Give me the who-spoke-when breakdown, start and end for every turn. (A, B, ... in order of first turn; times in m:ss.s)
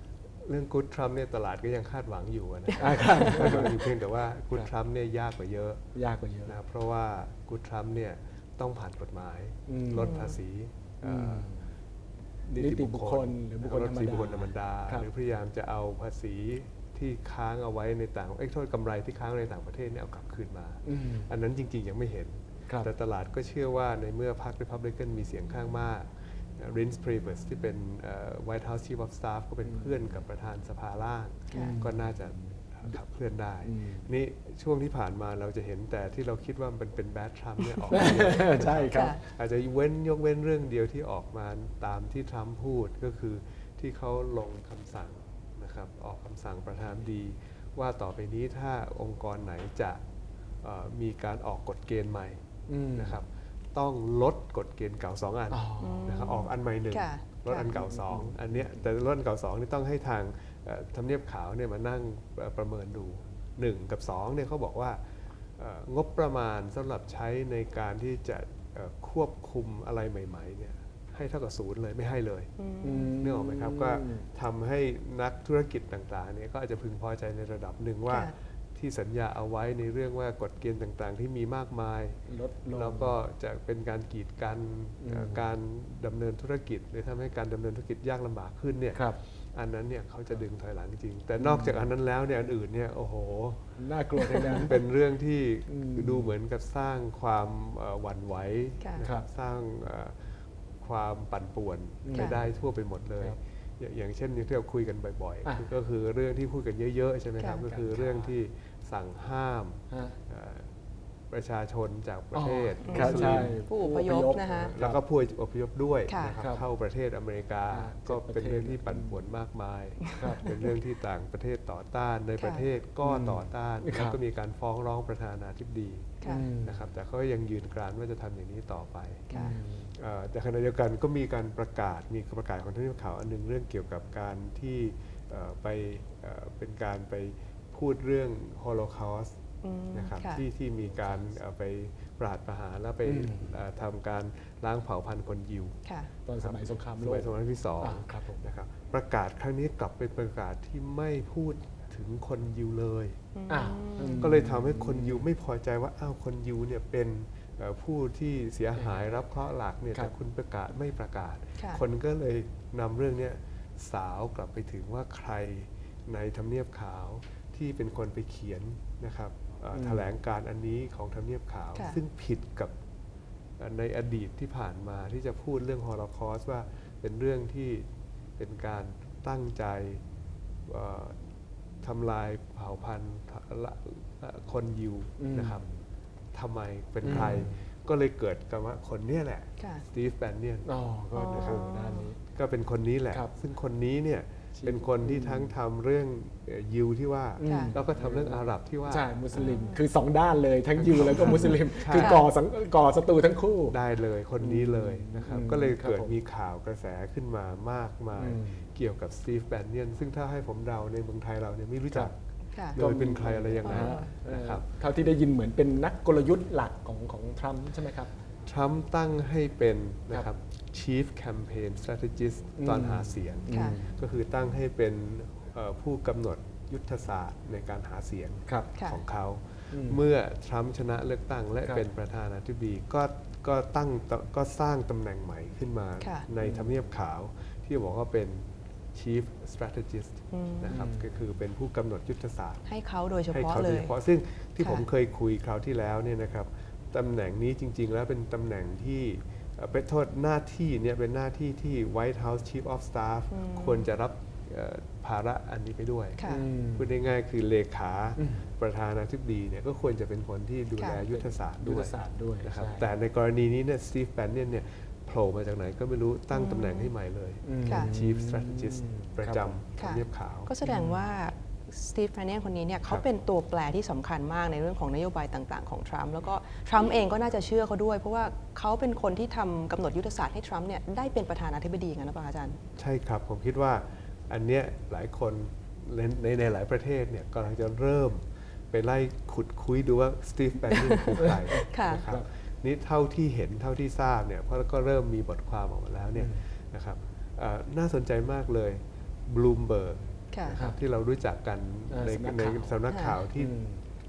0:00.4-0:05.8 A
0:02.8-0:03.9 B
0:05.9-0:06.6 B
0:06.4-0:11.5 A
0:09.7-0:10.3 B
0:11.0-0:11.8 B
0:12.4-0:50.0 A
0:12.6-0:15.1 B
0:20.8-0:21.3 B
0:29.6-0:30.2 B
0:31.5-0:31.8 C
0:31.5-0:33.0 B
0:33.6-0:34.1 B
0:37.6-0:39.2 B
0:38.9-0:39.2 C
0:50.6-0:52.4 A
0:52.7-0:53.2 B
0:52.9-1:05.0 A
0:55.5-0:56.3 B
0:55.8-0:57.7 C
0:57.7-0:58.8 B
1:05.6-1:12.5 A
1:12.6-1:13.1 C
1:12.8-1:14.3 B
1:13.2-1:22.2 A
1:22.3-1:23.2 B
1:22.7-1:50.7 A
1:25.0-1:25.5 B
1:28.9-1:29.2 B
1:31.4-1:31.9 B
1:33.8-1:34.8 B
1:35.7-1:36.3 B
1:39.0-1:39.2 B
1:42.0-1:42.6 B
1:47.6-1:48.3 B
1:49.9-1:50.2 B
1:51.3-1:53.6 A
1:52.3-1:55.0 B
1:52.8-1:54.7 C
1:54.6-2:19.4 A
1:56.1-1:56.4 C
1:56.3-1:56.6 B
1:57.7-1:59.2 B
2:00.2-2:00.6 B
2:02.4-2:02.6 C
2:03.0-2:04.2 B
2:06.2-2:06.5 C
2:06.2-2:06.9 B
2:09.3-2:09.9 B
2:19.6-2:20.4 C
2:19.9-2:25.8 A
2:20.8-2:21.4 B
2:23.0-2:23.6 B
2:25.8-2:26.1 C
2:26.2-2:28.5 B
2:26.4-2:33.2 A
2:33.3-2:34.3 C
2:33.5-2:35.3 B
2:34.2-2:52.7 A
2:38.8-2:39.1 B
2:49.7-2:50.1 B
2:53.6-3:00.0 A
3:00.6-3:01.3 A
3:01.8-3:05.6 A
3:05.2-3:05.8 B
3:06.3-3:10.7 A
3:07.0-3:07.6 B
3:09.6-3:09.8 C
3:10.6-3:12.2 B
3:11.1-3:12.1 C
3:11.3-3:11.7 A
3:12.3-3:19.5 A
3:14.6-3:15.6 B
3:17.4-3:23.8 B
3:17.4-3:17.7 C
3:19.3-3:19.8 C
3:20.8-3:22.3 A
3:21.9-3:22.3 C
3:23.7-3:32.2 A
3:24.4-3:26.2 B
3:28.2-3:28.7 B
3:32.7-3:34.7 A
3:32.8-3:38.1 B
3:33.6-3:34.1 C
3:38.4-4:02.6 A
3:42.6-3:44.0 B
3:43.5-3:43.8 C
3:49.7-3:50.0 B
3:56.0-3:56.3 C
3:56.4-3:56.9 B
4:00.3-4:00.7 C
4:00.7-4:01.3 B
4:02.7-4:03.9 C
4:03.3-4:16.2 A
4:04.6-4:04.8 C
4:13.3-4:13.8 C
4:16.2-4:16.4 C
4:16.2-4:17.0 B
4:16.8-4:30.5 A
4:18.2-4:18.5 B
4:21.1-4:22.9 B
4:26.3-4:26.9 C
4:27.4-4:29.6 B
4:27.6-4:27.9 C
4:29.8-4:42.6 C
4:30.6-4:31.0 B
4:42.8-5:03.6 A
4:50.7-4:51.1 C
4:51.2-4:52.2 B
4:51.7-4:52.0 C
4:56.1-4:56.4 B
5:00.3-5:00.6 C
5:01.9-5:02.8 B
5:02.9-5:03.2 C
5:03.3-5:03.8 B